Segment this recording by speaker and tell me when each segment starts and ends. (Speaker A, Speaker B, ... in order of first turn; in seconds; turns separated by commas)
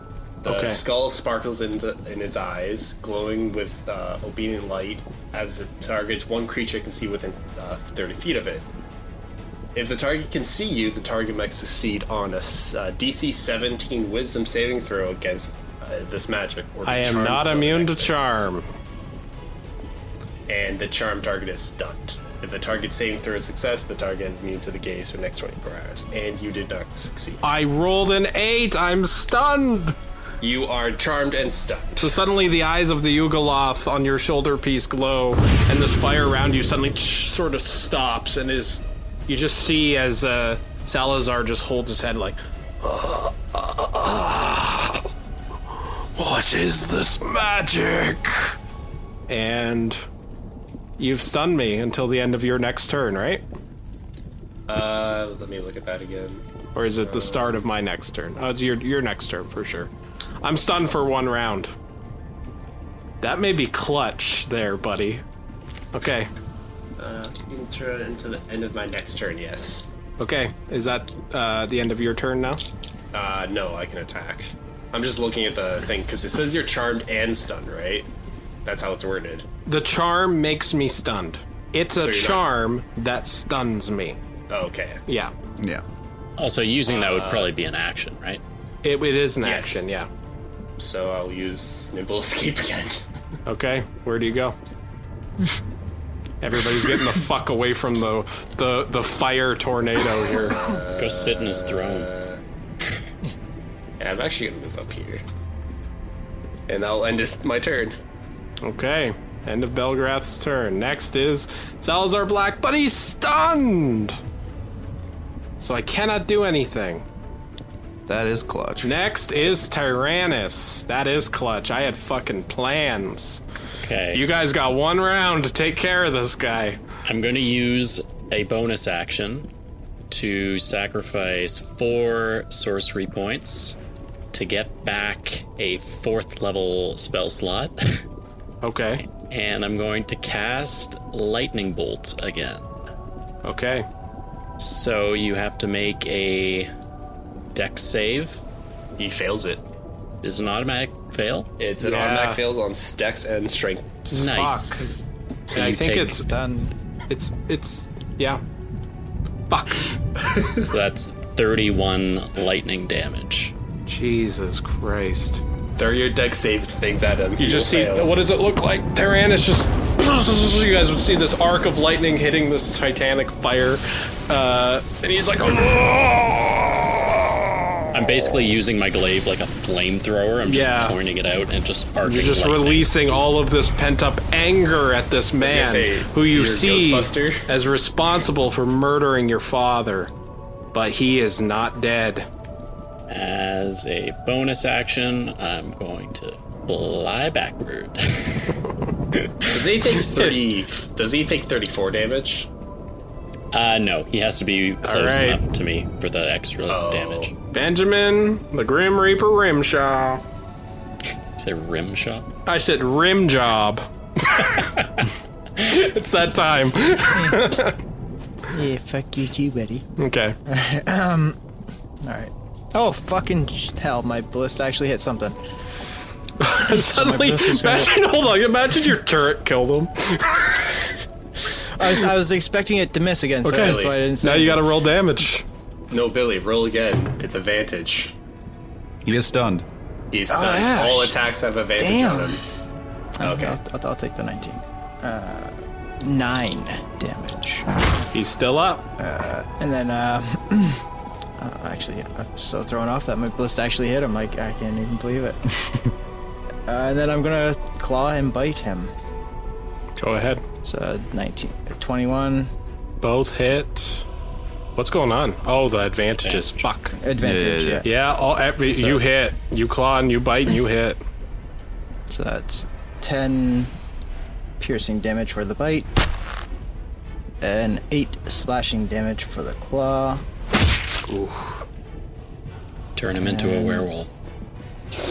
Speaker A: 0.4-8.6, Speaker B: 0.4-0.8, Speaker A: 9.7-18.1, Speaker B: 16.8-18.6, Speaker A: 20.5-27.4, Speaker B: 27.4-29.9, Speaker A: 30.4-32.1, Speaker B: 32.0-45.0, Speaker B: 46.1-48.5, Speaker B: 49.3-50.0, Speaker B: 51.0-53.4, Speaker A: 54.7-56.4, Speaker B: 56.7-59.9, Speaker A: 57.0-57.5, Speaker B: 60.4-61.7, Speaker B: 63.2-65.2, Speaker B: 65.9-66.3, Speaker A: 67.0-69.9, Speaker B: 70.2-72.6, Speaker A: 73.1-78.1, Speaker A: 78.6-79.5, Speaker B: 79.7-84.2, Speaker A: 81.9-82.5, Speaker A: 84.5-85.0, Speaker B: 85.1-85.3, Speaker C: 85.6-85.8, Speaker D: 86.4-88.4, Speaker A: 86.9-87.5, Speaker B: 88.8-90.1, Speaker A: 89.4-89.8, Speaker A: 90.8-93.0, Speaker B: 93.5-94.5, Speaker B: 96.4-100.6, Speaker A: 100.3-102.4, Speaker D: 101.0-102.1, Speaker A: 104.0-105.2, Speaker A: 106.7-108.0, Speaker B: 108.6-114.2, Speaker B: 115.6-117.0, Speaker C: 118.1-118.9, Speaker B: 118.8-123.4, Speaker D: 123.8-124.2, Speaker B: 124.1-126.8, Speaker D: 127.0-129.5, Speaker D: 130.1-133.8, Speaker D: 134.3-138.0, Speaker B: 138.6-139.0, Speaker D: 139.1-142.7, Speaker B: 143.4-143.8, Speaker D: 144.6-146.7, Speaker D: 147.5-148.4, Speaker A: 149.0-149.6, Speaker D: 150.2-151.5, Speaker A: 151.6-154.0, Speaker B: 151.8-152.4, Speaker B: 154.1-154.9, Speaker D: 154.1-154.8, Speaker B: 155.5-156.3, Speaker D: 155.5-156.2, Speaker E: 156.2-156.7, Speaker B: 157.1-158.4, Speaker B: 159.5-159.9, Speaker A: 160.2-160.7, Speaker D: 160.3-163.5, Speaker B: 163.8-165.4, Speaker A: 165.8-168.1, Speaker B: 167.4-177.8, Speaker D: 177.9-182.9, Speaker B: 180.4-180.9, Speaker B: 182.0-190.1, Speaker A: 185.4-187.4, Speaker B: 190.7-192.3, Speaker D: 193.1-198.6, Speaker A: 199.5-202.5, Speaker D: 203.5-207.3, Speaker B: 204.8-205.4, Speaker A: 206.7-207.3, Speaker B: 207.5-210.2, Speaker D: 211.4-212.2, Speaker B: 212.4-214.7, Speaker B: 215.6-217.8, Speaker E: 217.1-217.5, Speaker E: 218.5-219.8, Speaker B: 220.0-220.3, Speaker E: 220.4-221.4, Speaker E: 222.0-225.4, Speaker B: 226.4-230.8, Speaker E: 226.7-228.0, Speaker E: 231.8-234.7, Speaker B: 233.4-235.4, Speaker A: 233.5-234.0, Speaker A: 235.9-238.1, Speaker C: 239.0-239.6, Speaker A: 240.1-242.4, Speaker B: 240.3-241.1, Speaker E: 241.8-242.3, Speaker E: 243.2-247.7, Speaker A: 243.2-243.6, Speaker B: 248.1-248.8, Speaker E: 249.0-250.8, Speaker E: 251.4-255.8, Speaker E: 256.7-258.9, Speaker B: 260.0-260.4, Speaker E: 260.6-262.5, Speaker B: 263.0-264.1, Speaker B: 264.8-266.9, Speaker D: 266.2-266.6, Speaker E: 267.0-267.9, Speaker C: 267.2-267.8, Speaker B: 267.8-271.0, Speaker E: 268.7-269.0, Speaker E: 272.1-273.7, Speaker E: 274.6-275.9, Speaker E: 277.4-280.2, Speaker B: 281.1-281.6, Speaker D: 282.9-284.1, Speaker E: 283.2-283.9